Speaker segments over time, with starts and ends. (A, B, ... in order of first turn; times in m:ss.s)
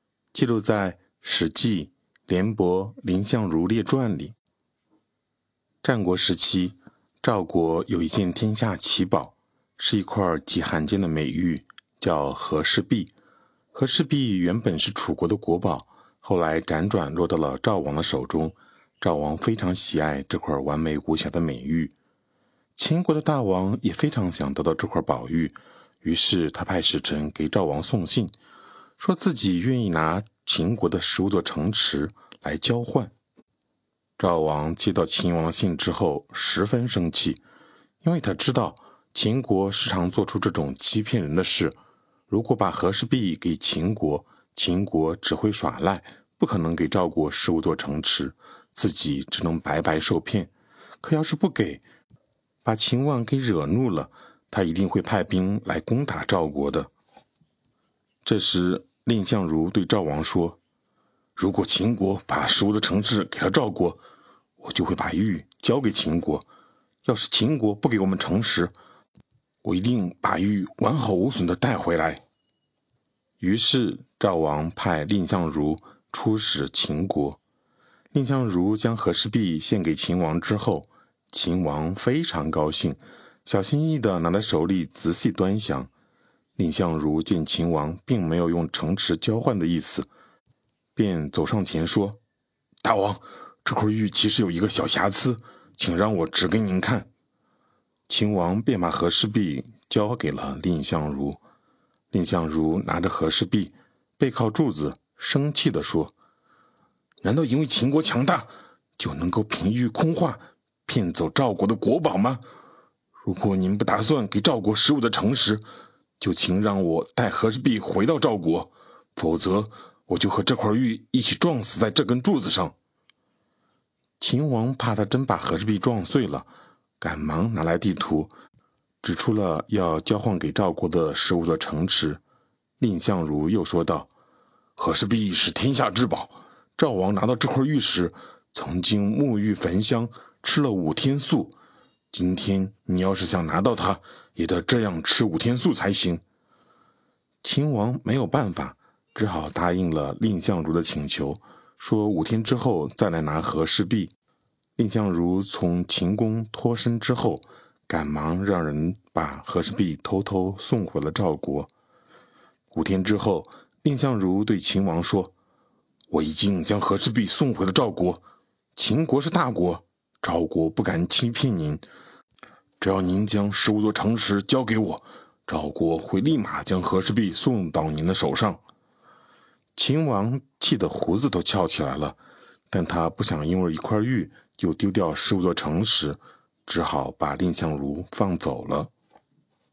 0:00.3-0:04.3 A
0:05.8-0:13.1 A
0:13.7-0:21.9 A
0:22.8-0:28.3 A
0:29.0-0:33.1 A
0:34.2-0:37.4 A
0:38.0-0:41.8 A
0:42.3-0:50.5 A
0:51.0-0:51.8 A
0:52.6-0:56.9 A
0:58.2-1:00.6 A
1:01.4-1:04.0 A
1:04.6-1:06.4 A
1:07.0-1:08.7 A
1:09.6-1:12.2 A
1:13.4-1:17.4 A
1:18.1-1:25.9 A
1:26.6-1:30.1 A
1:30.9-1:32.2 A
1:32.8-1:37.1 A
1:38.1-1:41.4 A
1:42.1-1:46.1 A
1:47.2-1:52.4 A
1:53.2-1:55.6 A
1:56.2-2:02.7 A
2:04.2-2:06.5 A
2:07.0-2:08.3 A
2:09.0-2:12.2 A
2:12.8-2:14.1 A
2:14.8-2:21.5 A
2:22.1-2:26.2 A
2:27.4-2:34.1 A
2:34.8-2:41.7 A
2:42.7-2:45.3 A
2:46.1-2:48.2 A
2:48.8-2:51.8 A
2:52.8-2:58.6 A
2:59.8-3:02.2 A
3:02.7-3:08.9 A